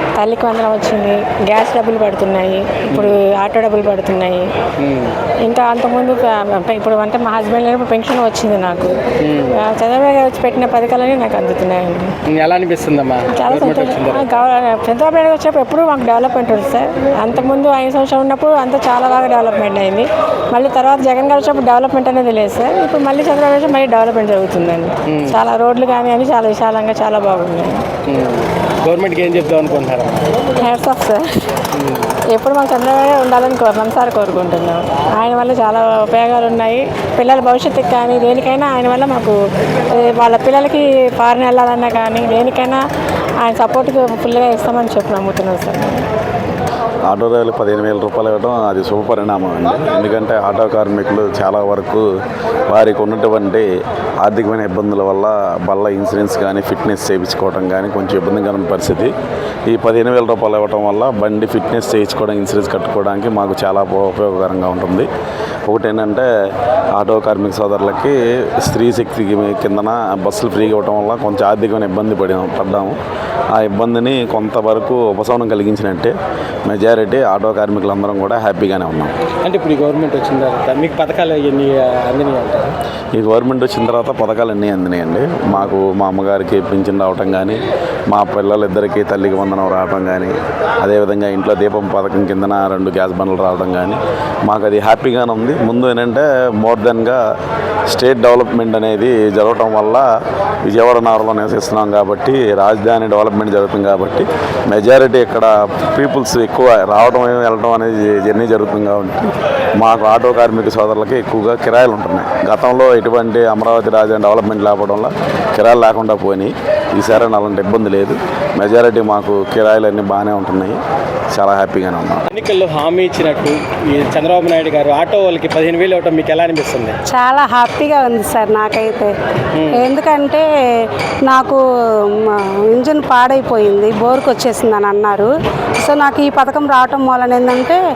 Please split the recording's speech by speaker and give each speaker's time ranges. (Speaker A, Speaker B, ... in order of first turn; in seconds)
Speaker A: 0.2-4.5, 5.5-8.9, 9.6-12.1, 13.3-27.8, 30.6-31.5, 32.3-39.3, 39.9-42.8, 43.4-46.0
Speaker B: 2.9-3.2, 4.8-5.1, 9.2-9.6, 12.3-14.2, 25.1-25.4, 28.1-30.3, 31.7-32.1, 79.4-82.8, 122.3-127.0, 129.5-129.9
Speaker C: 47.1-52.1, 52.7-53.7, 54.2-59.1, 59.7-65.1, 65.7-66.3, 66.9-73.0, 73.5-76.1, 76.7-79.1, 83.1-97.2, 97.9-100.1, 100.6-120.8, 121.3-122.3
Speaker D: 127.1-129.1, 129.7-135.3, 135.8-137.8